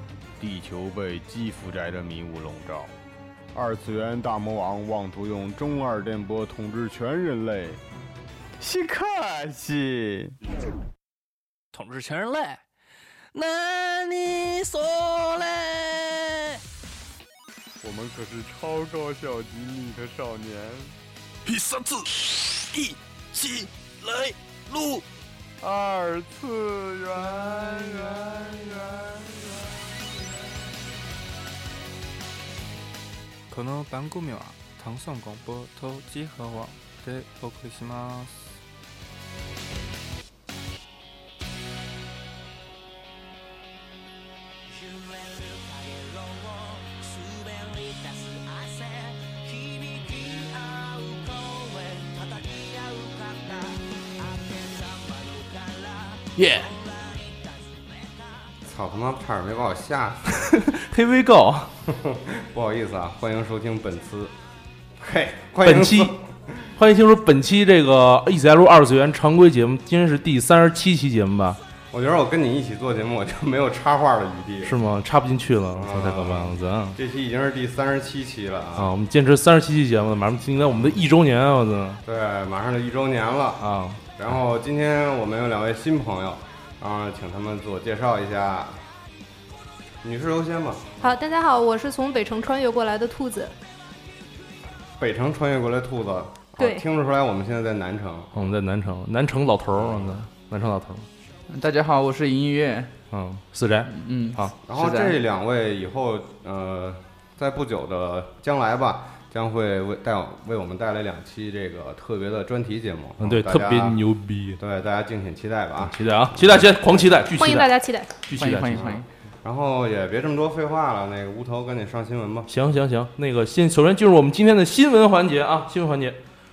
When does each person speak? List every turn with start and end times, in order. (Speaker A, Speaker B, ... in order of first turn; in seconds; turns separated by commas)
Speaker A: 0.4-2.9, Speaker A: 3.5-7.8, Speaker A: 8.7-10.2, Speaker B: 11.9-12.6, Speaker B: 13.4-16.0, Speaker A: 17.8-20.9, Speaker A: 21.5-21.9, Speaker A: 25.6-29.4, Speaker C: 27.4-28.9, Speaker D: 33.5-38.4, Speaker E: 44.7-58.5, Speaker F: 56.4-56.7, Speaker C: 58.6-60.5, Speaker F: 60.4-61.7, Speaker C: 61.9-64.3, Speaker C: 65.0-66.7, Speaker F: 65.6-66.2, Speaker F: 66.8-71.6, Speaker C: 71.9-74.8, Speaker F: 74.6-77.0, Speaker C: 75.7-78.9, Speaker F: 78.8-82.0, Speaker C: 82.0-83.6, Speaker F: 83.6-84.0, Speaker C: 84.2-88.8, Speaker C: 90.0-91.2, Speaker G: 91.0-93.5, Speaker C: 95.0-98.3, Speaker G: 96.6-96.8, Speaker F: 98.3-101.1, Speaker C: 99.7-100.2, Speaker H: 101.5-102.9, Speaker F: 103.1-104.5, Speaker H: 103.8-105.2, Speaker C: 104.6-114.0, Speaker F: 113.2-114.6, Speaker C: 114.6-117.2, Speaker F: 115.8-118.9, Speaker G: 117.4-118.1, Speaker H: 118.3-119.0, Speaker C: 118.7-122.5, Speaker F: 122.5-126.2